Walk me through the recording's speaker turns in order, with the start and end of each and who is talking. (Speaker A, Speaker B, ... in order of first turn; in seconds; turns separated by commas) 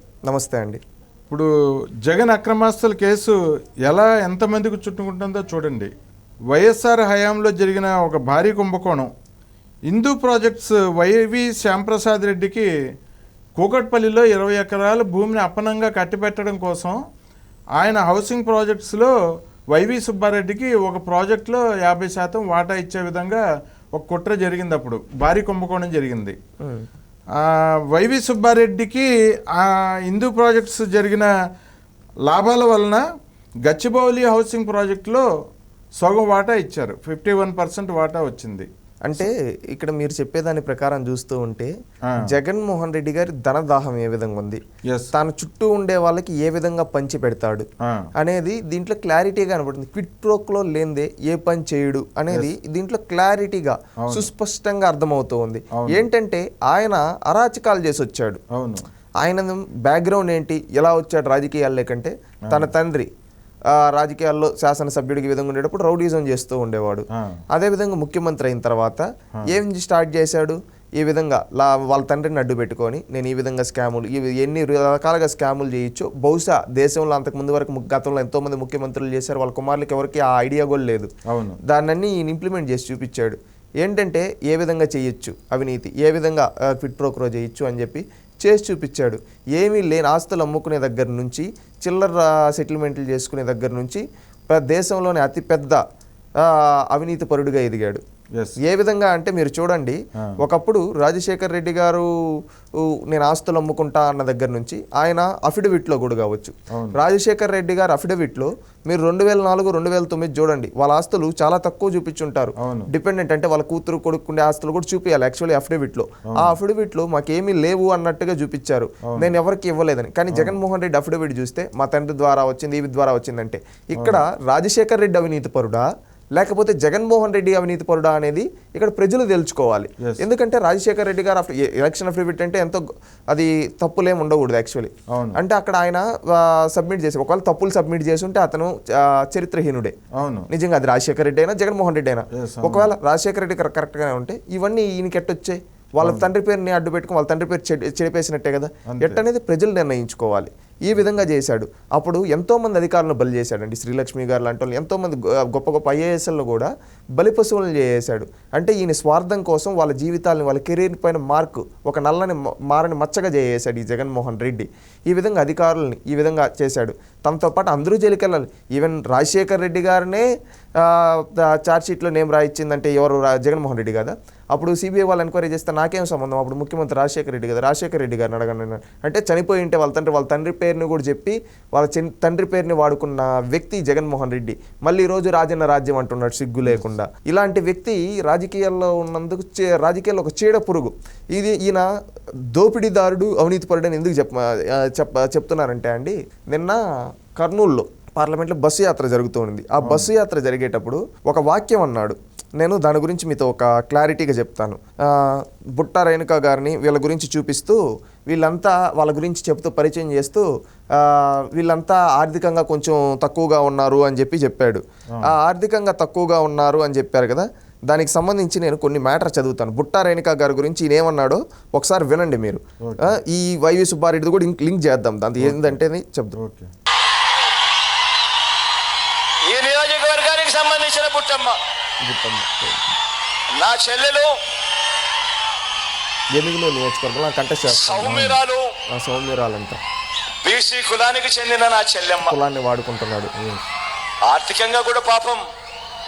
Speaker A: 0.3-0.8, Speaker B: 2.0-5.9, Speaker B: 6.5-9.1, Speaker B: 9.9-12.7, Speaker B: 13.6-17.0, Speaker B: 17.8-19.2, Speaker B: 19.7-26.4, Speaker A: 26.6-26.9, Speaker B: 27.3-31.3, Speaker B: 32.2-33.0, Speaker B: 33.6-35.3, Speaker B: 36.0-38.7, Speaker A: 39.0-44.6, Speaker B: 42.1-42.3, Speaker B: 44.8-45.1, Speaker A: 45.1-58.4, Speaker B: 47.8-48.1, Speaker B: 54.0-54.3, Speaker B: 55.8-56.0, Speaker B: 58.5-58.9, Speaker A: 59.2-63.1, Speaker A: 63.7-81.1, Speaker B: 67.1-67.4, Speaker B: 81.3-81.6, Speaker A: 81.6-95.8, Speaker A: 96.4-98.0, Speaker A: 98.6-102.1, Speaker A: 102.8-139.9, Speaker B: 106.7-107.0, Speaker B: 112.6-112.9, Speaker B: 116.3-116.6, Speaker B: 119.0-119.3, Speaker B: 120.3-120.6, Speaker B: 135.1-135.4, Speaker B: 140.1-140.5, Speaker A: 140.5-170.2, Speaker B: 142.3-142.9, Speaker B: 146.0-146.3, Speaker B: 148.9-149.2, Speaker A: 170.8-191.8, Speaker A: 192.5-196.8, Speaker A: 197.4-226.3, Speaker B: 199.8-200.1, Speaker B: 222.8-223.2, Speaker B: 225.4-225.8, Speaker B: 226.3-226.7, Speaker C: 229.4-231.6, Speaker A: 232.0-232.9, Speaker C: 233.5-234.4, Speaker A: 236.3-238.1, Speaker C: 237.8-238.7, Speaker B: 237.9-238.4, Speaker A: 238.9-239.8, Speaker C: 240.4-242.3, Speaker A: 242.2-243.3, Speaker B: 243.3-243.7, Speaker C: 244.2-245.5